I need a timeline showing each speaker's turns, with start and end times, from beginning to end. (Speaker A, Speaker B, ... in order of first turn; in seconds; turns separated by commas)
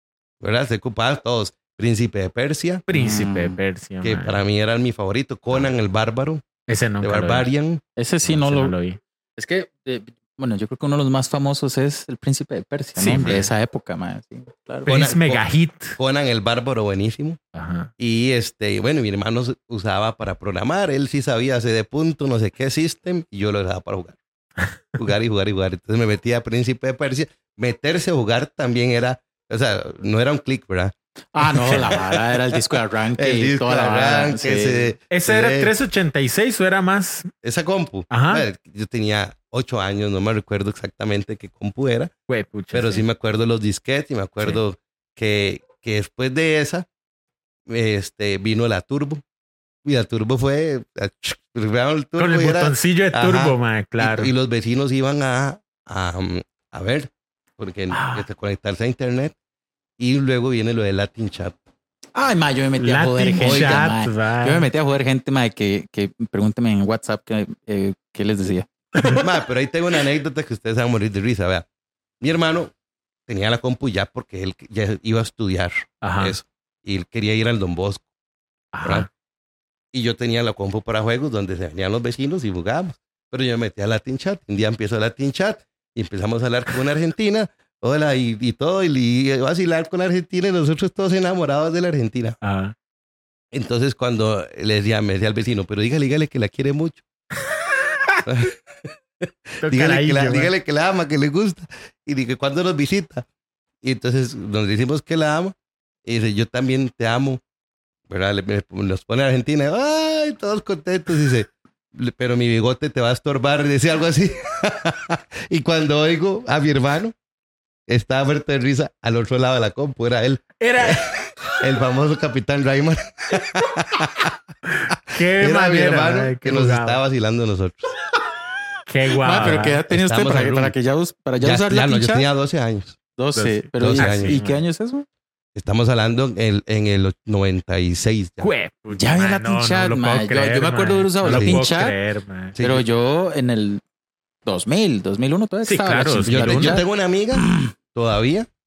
Speaker A: 0.4-2.8, Speaker B: 2.9-4.3, Speaker C: 2.9-3.6, Speaker A: 4.0-6.5, Speaker B: 6.7-7.5, Speaker A: 7.0-7.8, Speaker C: 8.0-8.8, Speaker B: 8.3-9.0, Speaker C: 9.4-14.9, Speaker B: 13.0-13.5, Speaker A: 13.2-13.4, Speaker A: 14.9-15.5, Speaker B: 14.9-16.0, Speaker A: 16.0-17.4, Speaker B: 17.6-17.9, Speaker A: 18.0-24.2, Speaker A: 25.0-30.9, Speaker C: 31.4-34.9, Speaker B: 31.4-32.4, Speaker A: 33.2-35.7, Speaker B: 35.1-37.3, Speaker A: 37.4-42.1, Speaker B: 38.1-38.5, Speaker B: 42.3-43.0, Speaker A: 42.7-46.9, Speaker A: 47.7-49.2, Speaker A: 49.9-59.3, Speaker B: 52.2-54.3, Speaker B: 57.9-58.2, Speaker A: 60.0-61.6, Speaker C: 62.1-69.2, Speaker B: 62.8-64.7, Speaker A: 63.4-63.7, Speaker A: 69.1-71.7, Speaker A: 72.2-72.7, Speaker A: 73.3-78.1, Speaker B: 76.0-76.3, Speaker B: 78.7-79.1, Speaker A: 79.9-92.4, Speaker B: 92.4-92.7, Speaker A: 93.5-97.0, Speaker A: 98.2-103.2, Speaker B: 99.6-100.5, Speaker A: 103.8-107.4, Speaker A: 108.1-117.2, Speaker A: 117.9-121.1, Speaker B: 120.6-121.6, Speaker A: 121.6-124.3, Speaker B: 124.7-127.0, Speaker A: 125.4-127.9, Speaker B: 128.9-129.8, Speaker C: 129.2-132.2, Speaker A: 129.9-130.8, Speaker A: 131.4-133.0, Speaker C: 133.2-135.1, Speaker B: 133.4-134.6, Speaker A: 133.8-134.4, Speaker A: 135.6-138.5, Speaker B: 138.4-142.6, Speaker C: 138.9-141.9, Speaker A: 141.2-141.6, Speaker A: 142.6-142.8, Speaker C: 142.6-143.8, Speaker C: 144.5-146.8, Speaker B: 145.7-146.8, Speaker A: 146.3-148.5, Speaker C: 147.4-147.7